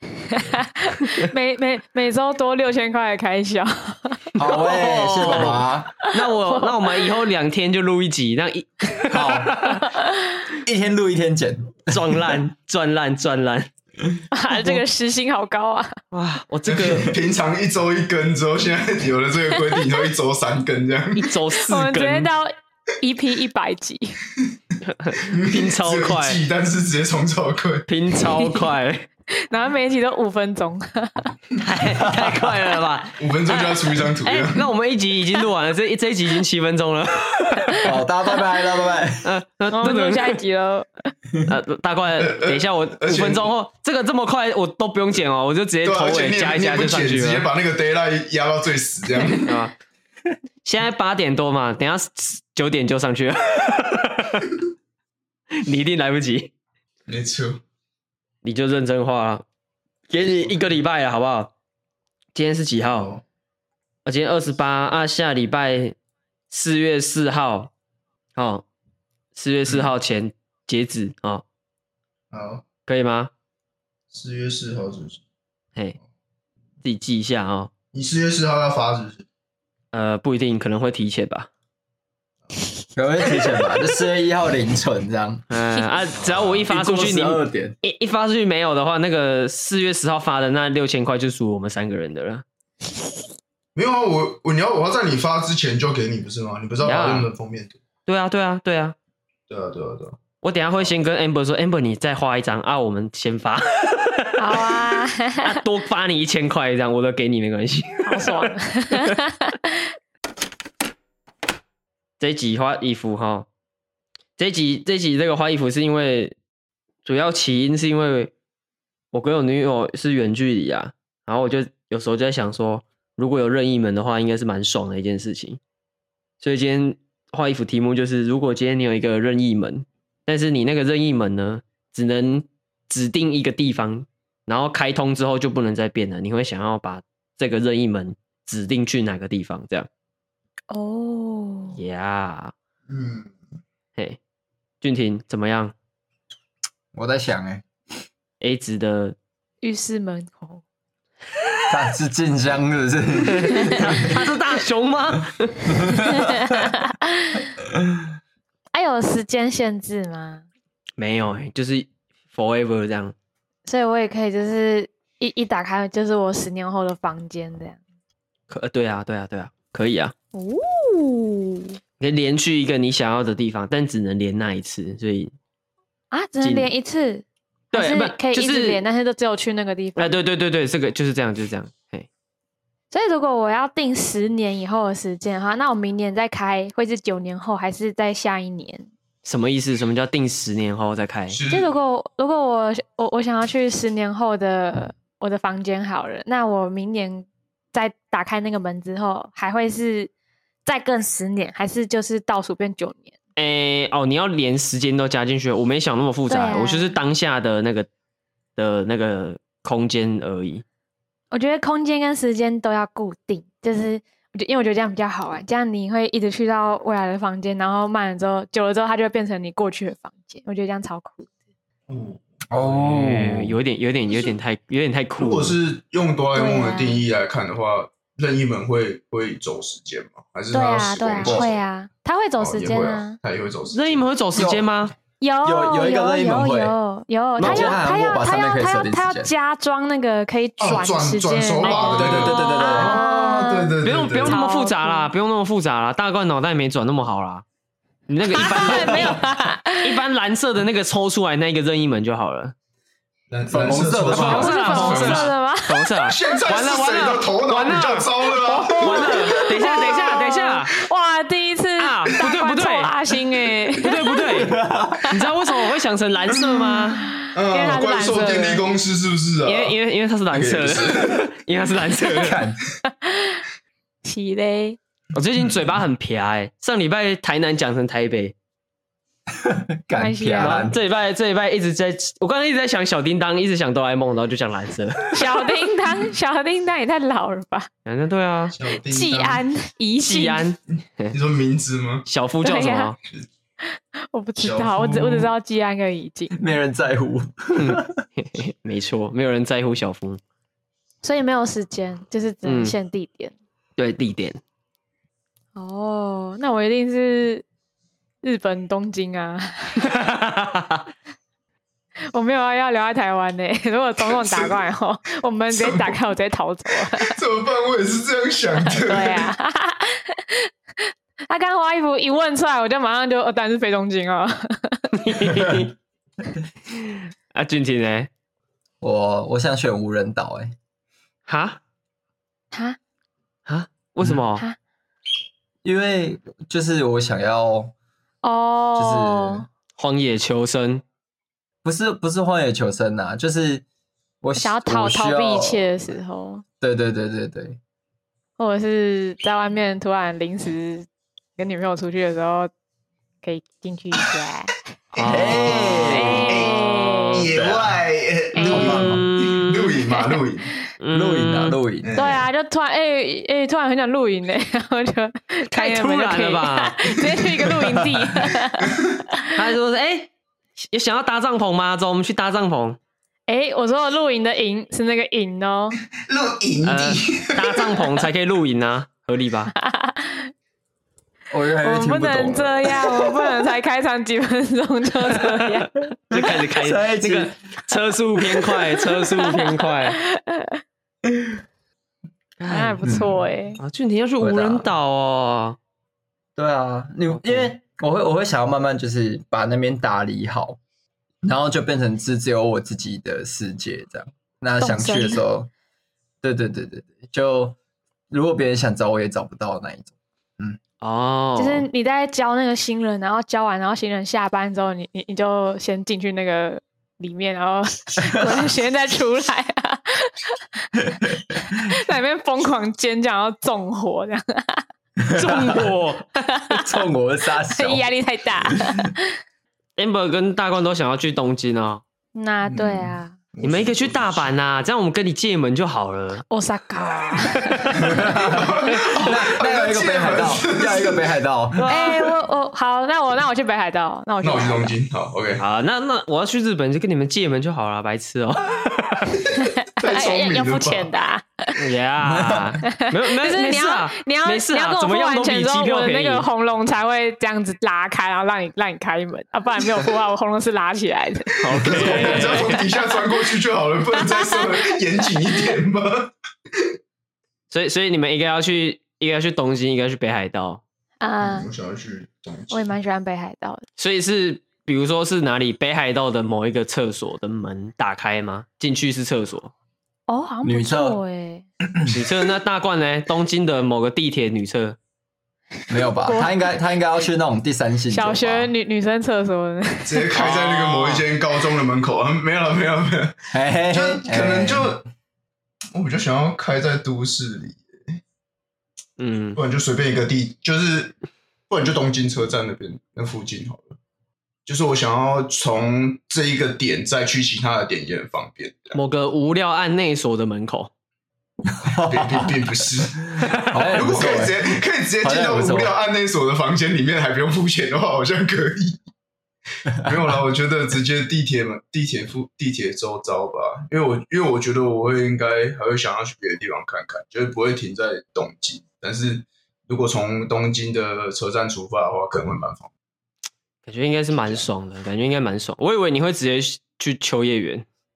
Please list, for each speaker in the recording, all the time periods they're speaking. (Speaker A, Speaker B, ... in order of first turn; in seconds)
Speaker A: 0.3-4.3, 6.0-6.8, 14.3-15.9, 21.7-24.2, 28.4-28.6, 29.5-31.3, 39.7-40.9, 104.4-105.6, 108.0-109.5, 140.7-141.8, 149.6-150.6, 156.1-157.4, 158.7-160.4, 163.7-167.8, 170.3-171.8, 176.1-180.2, 182.9-188.9, 191.5-200.1, 200.6-203.1, 206.3-207.0, 211.3-221.3, 226.3-227.0, 230.5-233.2, 235.2-245.1, 248.3-250.0, 254.2-256.1, 258.4-264.2, 267.0-268.6, 273.0-273.4, 274.0-274.8, 279.9-280.7, 285.1-287.7, 288.9-290.4, 292.4-292.9, 294.1-296.3, 301.0-303.3, 305.6-307.4, 308.2-309.9, 312.1-317.1, 318.7-324.9, 338.2-339.4, 344.4-346.4, 348.4-352.5, 353.2-354.5, 355.9-357.2, 358.3-359.0, 359.9-360.2, 361.9-368.7, 373.3-375.8, 379.6-380.3, 381.6-385.7, 389.0-389.5, 390.1-390.6, 392.4-393.6, 404.6-405.2, 411.4-420.1, 420.8-424.6, 427.5-429.0, 432.1-433.1, 436.3-437.8, 441.7-444.7, 449.8-451.6, 452.7-463.0, 464.0-464.5, 471.0-471.5, 472.5-473.6, 480.1-481.4, 486.0-486.4, 487.9-490.1
Speaker B: 4.4-5.9, 9.1-9.5, 10.6-12.4, 37.8-39.3, 83.0-85.4, 86.7-87.8, 146.9-147.6, 151.7-154.2, 155.8-156.3, 222.5-223.6, 234.3-234.7, 235.4-236.8, 237.4-239.3, 242.0-243.0, 253.5-254.6, 264.3-265.1, 272.1-272.6, 279.3-280.8, 296.3-298.0, 328.8-330.5, 335.6-337.7, 338.8-339.4, 341.6-343.6, 344.2-345.8, 346.6-347.6, 355.0-356.3, 357.3-357.8, 358.4-359.0, 360.9-361.9, 381.3-383.2, 386.1-387.3, 392.8-393.2, 394.2-394.7, 396.4-400.6, 401.2-405.5, 406.2-407.6, 408.1-410.6, 425.1-425.6, 426.5-427.9, 437.8-441.7, 452.0-452.5, 480.4-481.0, 485.7-488.5, 493.3-494.8, 511.6-512.4, 513.2-515.8, 519.8-520.1
Speaker C: 4.5-9.8, 11.9-13.7, 16.1-17.1, 21.1-22.3, 25.0-26.4, 27.9-29.1, 31.6-37.9, 39.2-40.4, 41.5-47.5, 49.4-49.7, 50.6-54.5, 55.5-56.5, 58.4-59.4, 60.1-61.5, 62.3-63.1, 64.0-65.9, 66.5-67.7, 68.3-68.6, 69.3-71.4, 72.9-73.3, 76.8-77.7, 79.9-81.5, 85.5-92.4, 96.8-97.3, 98.0-98.9, 100.4-104.8, 105.4-109.1, 112.2-113.5, 114.4-116.3, 117.0-118.3, 119.1-125.6, 126.4-139.9, 141.8-142.5, 144.8-145.7, 148.4-149.2, 153.3-155.8, 161.0-163.1, 168.5-170.1, 172.0-175.3, 176.4-176.7, 177.7-178.8, 180.0-182.1, 189.2-191.4, 203.3-207.9, 208.6-210.6, 222.9-225.6, 233.7-234.9, 237.4-237.8, 241.6-243.0, 243.8-247.4, 248.1-249.2, 249.8-252.5, 254.1-260.7, 261.8-262.9, 263.8-264.5, 265.1-267.1, 269.4-272.4, 275.1-278.3, 280.4-285.5, 287.9-288.5, 290.0-291.1, 292.1-293.0, 297.5-300.2, 302.4-302.7, 303.8-304.4, 309.8-310.8, 324.9-325.7, 326.7-328.1, 331.3-331.6, 333.5-334.4, 339.8-340.8, 354.9-357.3, 358.8-359.8, 360.8-361.6, 365.5-367.0, 369.3-372.8, 376.6-379.5, 386.1-390.0, 392.4-392.9, 393.6-395.6, 397.1-397.5, 410.8-411.7, 425.1-426.1, 429.8-431.8, 433.4-436.2, 437.3-437.9, 441.6-442.0, 445.4-449.2, 451.6-456.3, 461.4-462.6, 467.5-470.6, 473.8-479.5, 481.9-484.8, 490.1-491.1, 499.0-499.4, 508.7-510.7, 533.6-537.6
Speaker D: 16.7-21.3, 25.1-27.9, 33.2-34.7, 42.2-43.5, 45.8-49.5, 57.1-57.6, 62.8-63.2, 72.3-72.7, 74.1-75.2, 77.9-79.2, 86.2-86.6, 93.7-97.8, 99.5-100.2, 142.9-143.3, 191.3-191.7, 221.9-223.0, 225.2-231.6, 232.4-234.0, 240.6-244.3, 253.3-255.3, 256.0-259.5, 267.3-269.8, 270.3-271.2, 288.5-289.4, 291.1-292.1, 294.4-295.3, 314.0-314.5, 315.5-316.0, 316.9-319.3, 355.0-355.7, 356.3-360.5, 361.8-362.2, 368.6-369.0, 376.1-378.0, 432.5-434.3, 437.8-441.0, 444.2-445.4, 449.2-450.9, 461.4-466.6, 471.2-472.7, 489.9-494.8, 495.7-498.0, 499.4-500.9, 501.5-503.8, 504.4-508.8, 511.9-518.8, 519.8-532.7, 534.2-534.5